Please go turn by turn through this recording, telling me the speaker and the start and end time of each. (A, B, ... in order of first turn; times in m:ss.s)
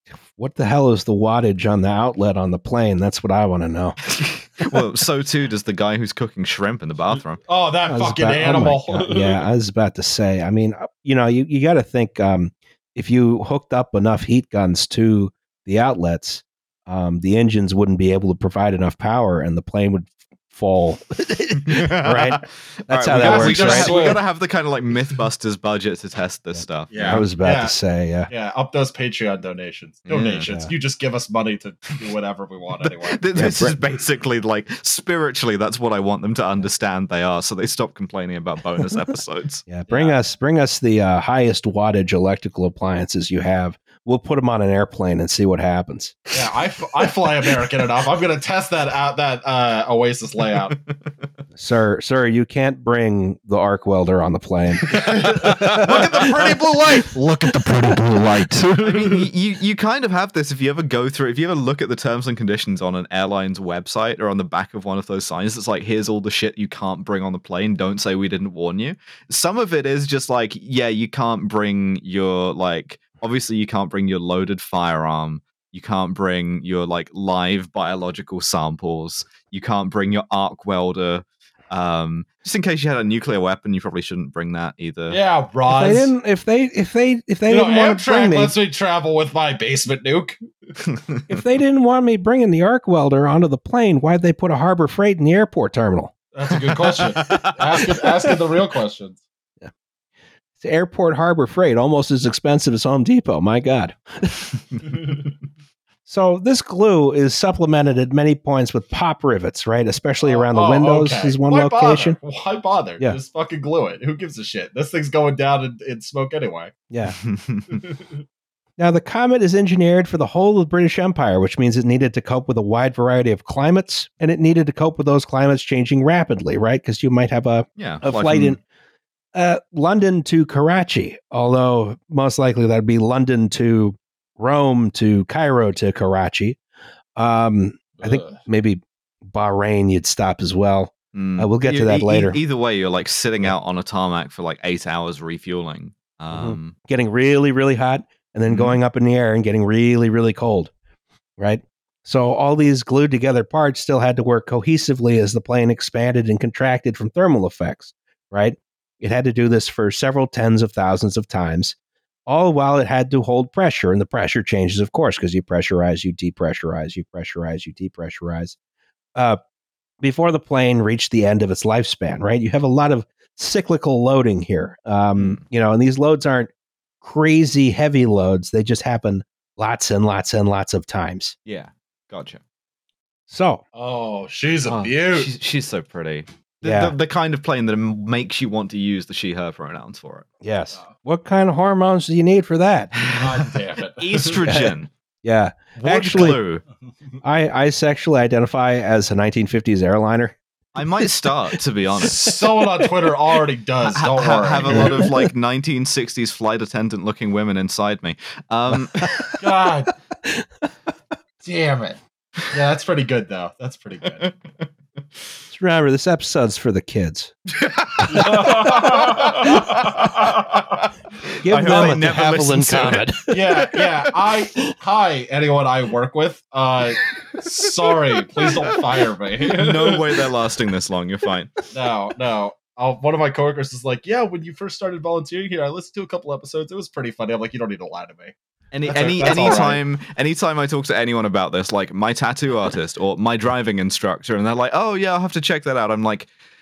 0:00.4-0:04.0 A
0:04.0-0:07.4 B
0:07.5-0:09.4 C
0:07.9-0:24.1 A
0:21.6-0:27.2 B
0:23.2-0:24.2 C
0:26.6-0:28.3 A
0:26.9-0:27.7 C
0:28.3-0:33.2 C
0:30.1-0:30.5 B
0:30.4-0:30.7 A
0:32.8-0:39.6 B
0:33.3-0:33.8 A
0:39.7-0:46.2 A
0:39.9-0:40.2 C
0:46.3-0:50.8 C
0:50.7-0:50.9 B
0:51.6-0:54.9 A
0:54.8-0:56.3 B
0:54.9-0:59.3 C
0:55.5-0:55.8 A
0:58.8-1:25.2 B
1:25.1-1:26.1 C
1:25.7-1:28.5 A
1:27.5-1:30.4 C
1:30.8-1:31.4 B
1:31.3-1:36.1 A
1:36.3-1:39.2 C
1:37.0-1:38.1 B
1:40.6-1:44.5 A
1:46.1-1:52.2 A
1:50.2-1:56.7 C
1:56.9-1:57.2 A
1:57.2-1:57.8 B
1:57.7-1:58.2 C
1:58.8-2:08.6 A
2:07.8-2:08.6 B
2:09.4-2:16.6 A
2:17.2-2:22.4 A
2:18.0-2:18.4 C
2:21.1-2:26.8 B
2:26.3-2:30.7 A
2:28.5-2:28.8 B
2:31.4-2:41.8 A
2:42.3-2:48.6 A
2:50.0-3:01.4 A
2:55.1-2:55.4 B
3:01.4-3:02.4 B
3:03.3-3:03.6 A
3:03.7-3:05.3 C
3:04.8-3:10.3 B
3:06.6-3:06.9 A
3:10.4-3:12.9 A
3:12.9-3:14.9 B
3:13.2-3:14.4 C
3:14.4-3:16.4 A
3:15.8-3:16.6 B
3:17.2-3:21.0 A
3:20.7-3:22.3 B
3:22.0-3:25.1 C
3:23.8-3:29.4 B
3:24.6-3:25.1 A
3:29.0-3:29.4 A
3:29.4-3:29.9 C
3:30.2-3:30.5 A
3:31.4-3:32.0 C
3:32.5-3:34.3 C
3:34.2-3:34.7 B
3:35.5-3:37.3 A
3:37.5-3:40.6 B
3:38.0-3:38.6 A
3:38.1-3:40.9 C
3:41.4-3:43.8 A
3:41.4-3:43.1 B
3:43.3-3:50.3 C
3:48.2-3:51.5 B
3:51.7-3:58.3 C
3:58.7-4:06.3 B
3:58.8-3:59.8 C